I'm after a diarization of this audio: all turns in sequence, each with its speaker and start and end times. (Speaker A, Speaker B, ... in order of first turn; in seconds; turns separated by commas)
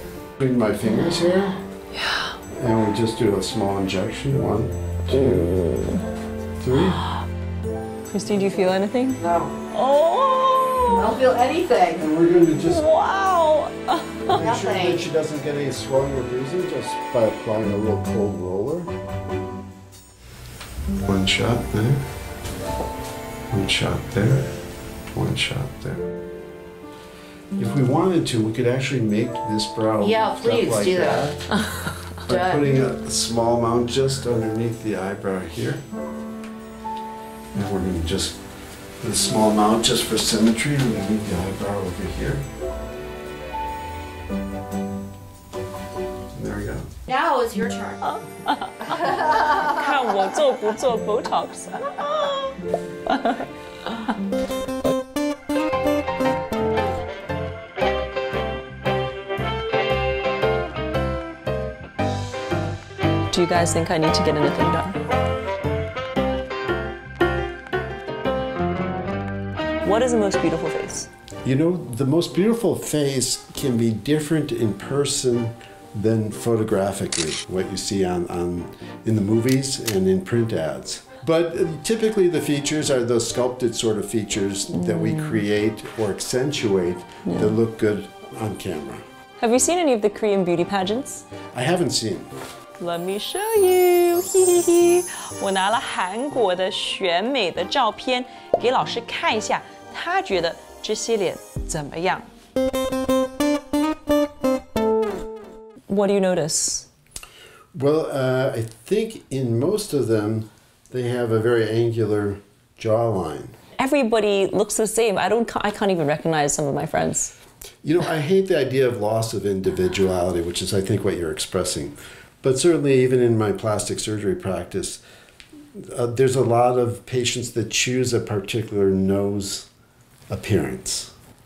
Speaker A: 0.4-1.6, Speaker B: 1.9-2.4, Speaker A: 2.5-5.5, Speaker B: 5.1-6.0, Speaker A: 6.6-7.1, Speaker B: 8.1-11.1, Speaker C: 9.2-9.5, Speaker C: 10.9-12.1, Speaker A: 12.0-12.8, Speaker B: 12.6-14.4, Speaker A: 14.3-18.9, Speaker C: 14.3-15.0, Speaker A: 21.0-22.0, Speaker A: 23.5-24.5, Speaker A: 25.1-26.1, Speaker A: 27.6-31.4, Speaker C: 30.0-31.4, Speaker A: 32.2-35.8, Speaker C: 32.3-32.6, Speaker A: 37.5-38.4, Speaker A: 39.0-42.4, Speaker A: 46.3-46.9, Speaker C: 47.1-48.0, Speaker B: 48.0-54.1, Speaker C: 48.8-49.5, Speaker B: 63.3-65.0, Speaker B: 69.8-71.1, Speaker A: 71.4-89.0, Speaker B: 84.7-85.4, Speaker B: 87.2-87.5, Speaker B: 89.4-91.2, Speaker A: 91.5-92.3, Speaker B: 92.8-102.2, Speaker B: 105.9-106.9, Speaker A: 107.7-113.5, Speaker B: 113.8-117.3, Speaker A: 117.8-125.0, Speaker A: 125.8-129.7, Speaker A: 130.3-131.1